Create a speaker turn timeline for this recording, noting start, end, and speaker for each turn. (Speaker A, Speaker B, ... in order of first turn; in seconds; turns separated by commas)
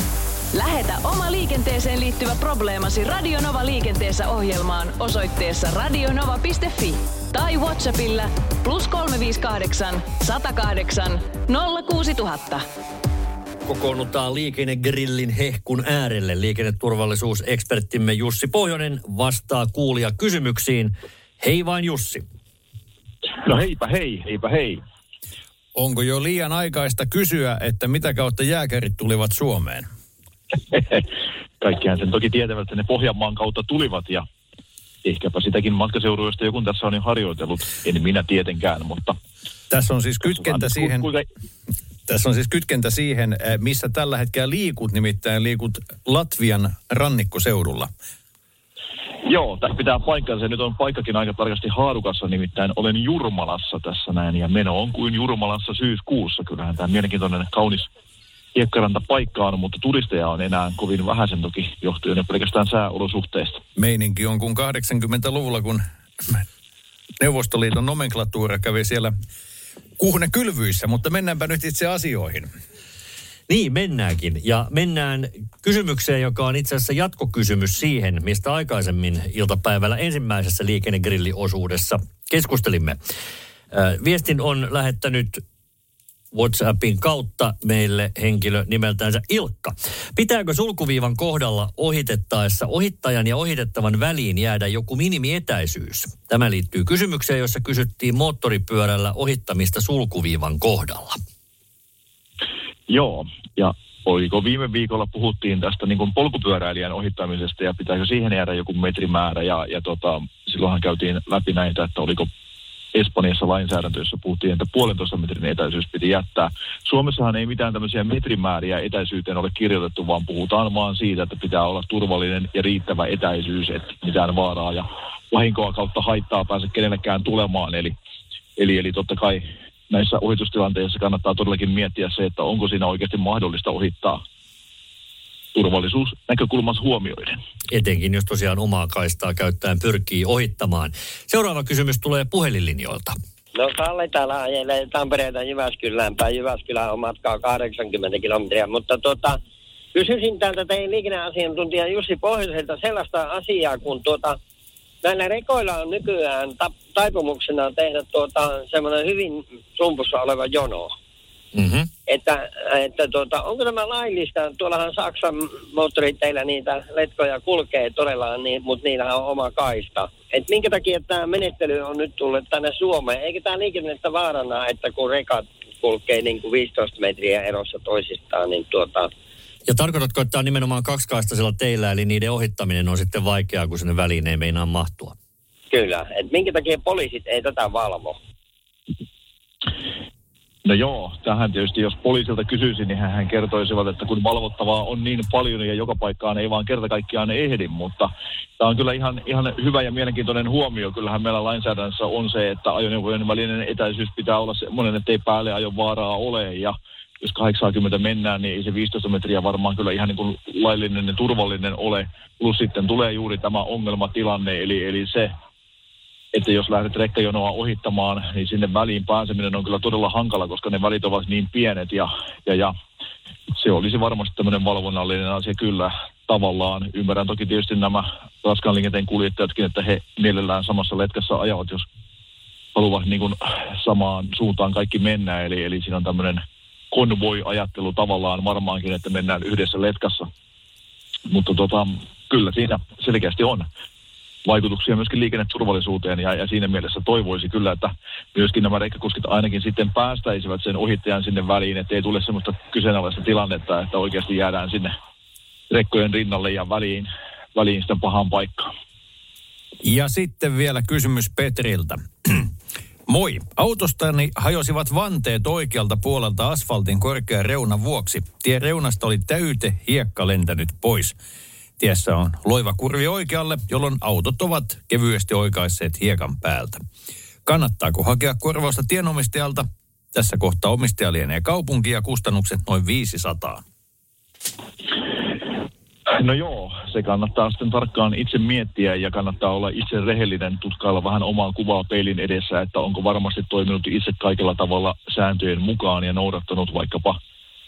Speaker A: 0.5-12.6, Speaker B: 13.7-22.2, Speaker C: 23.4-24.8, Speaker D: 25.7-29.9, Speaker C: 30.7-31.1, Speaker C: 31.6-34.2, Speaker C: 35.0-39.1, Speaker D: 39.7-41.1, Speaker C: 40.5-41.2, Speaker D: 42.1-47.9, Speaker C: 49.2-57.9, Speaker C: 58.5-63.6, Speaker D: 63.8-66.4, Speaker D: 67.2-69.1, Speaker D: 70.0-72.5, Speaker B: 73.5-83.0, Speaker B: 83.7-85.4, Speaker B: 86.3-101.2, Speaker C: 102.9-112.3, Speaker C: 112.9-127.9, Speaker C: 128.6-134.2, Speaker C: 135.5-137.4, Speaker B: 137.7-143.1, Speaker E: 143.6-149.4, Speaker E: 149.9-154.4, Speaker E: 155.0-160.9, Speaker B: 161.5-161.9, Speaker E: 162.1-179.1, Speaker B: 179.7-185.2, Speaker E: 185.7-188.2, Speaker C: 190.6-215.3, Speaker C: 216.3-222.7, Speaker C: 223.5-231.8, Speaker C: 232.7-240.3, Speaker C: 241.3-243.6, Speaker C: 244.4-254.9, Speaker C: 255.7-258.6, Speaker D: 259.8-262.5, Speaker D: 263.1-271.1, Speaker D: 271.8-276.8, Speaker D: 277.4-279.6, Speaker D: 280.1-283.6, Speaker C: 286.1-297.2